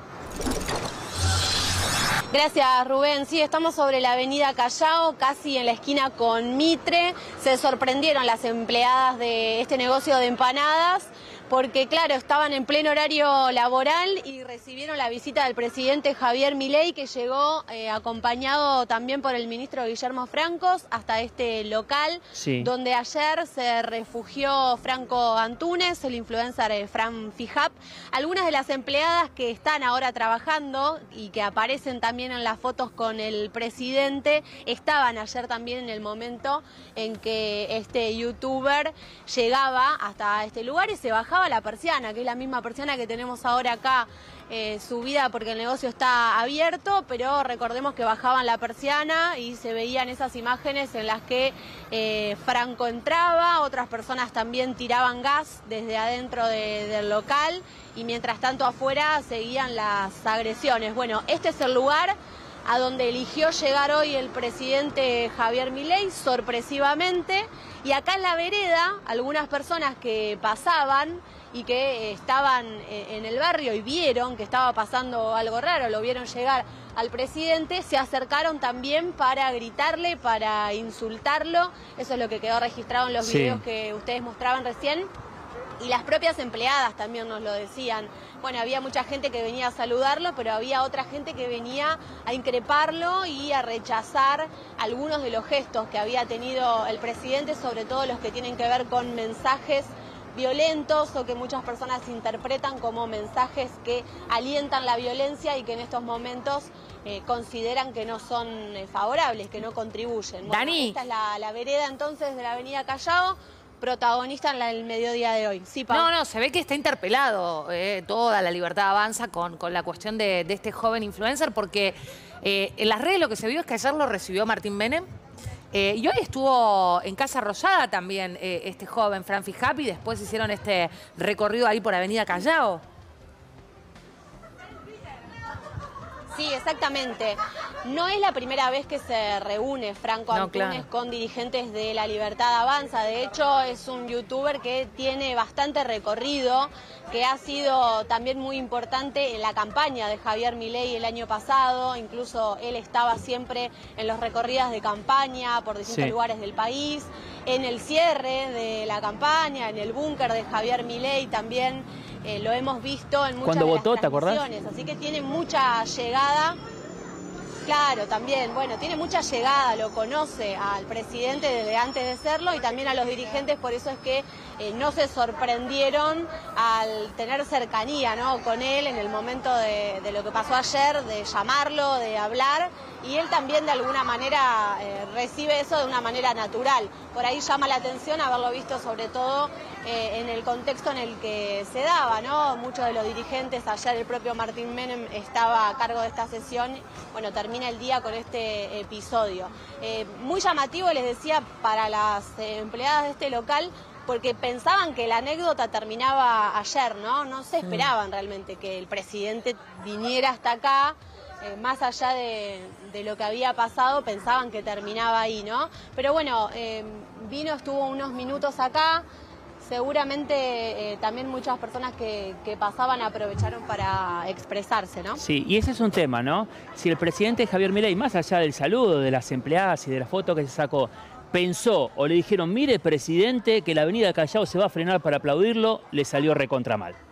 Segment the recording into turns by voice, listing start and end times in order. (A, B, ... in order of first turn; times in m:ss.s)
0:02.3-1:02.1 A
0:22.3-0:22.7 B
1:02.6-1:25.1 A
1:23.2-1:23.6 B
1:25.8-1:56.1 A
1:50.4-1:51.0 C
1:55.9-2:05.0 C
2:05.7-2:12.8 C
2:16.3-2:46.6 A
2:20.3-2:20.9 C
2:35.8-2:36.1 B
2:43.4-2:44.4 B
2:47.6-3:39.0 A
3:27.6-3:27.9 C
3:39.6-3:45.2 A
3:45.2-3:57.0 B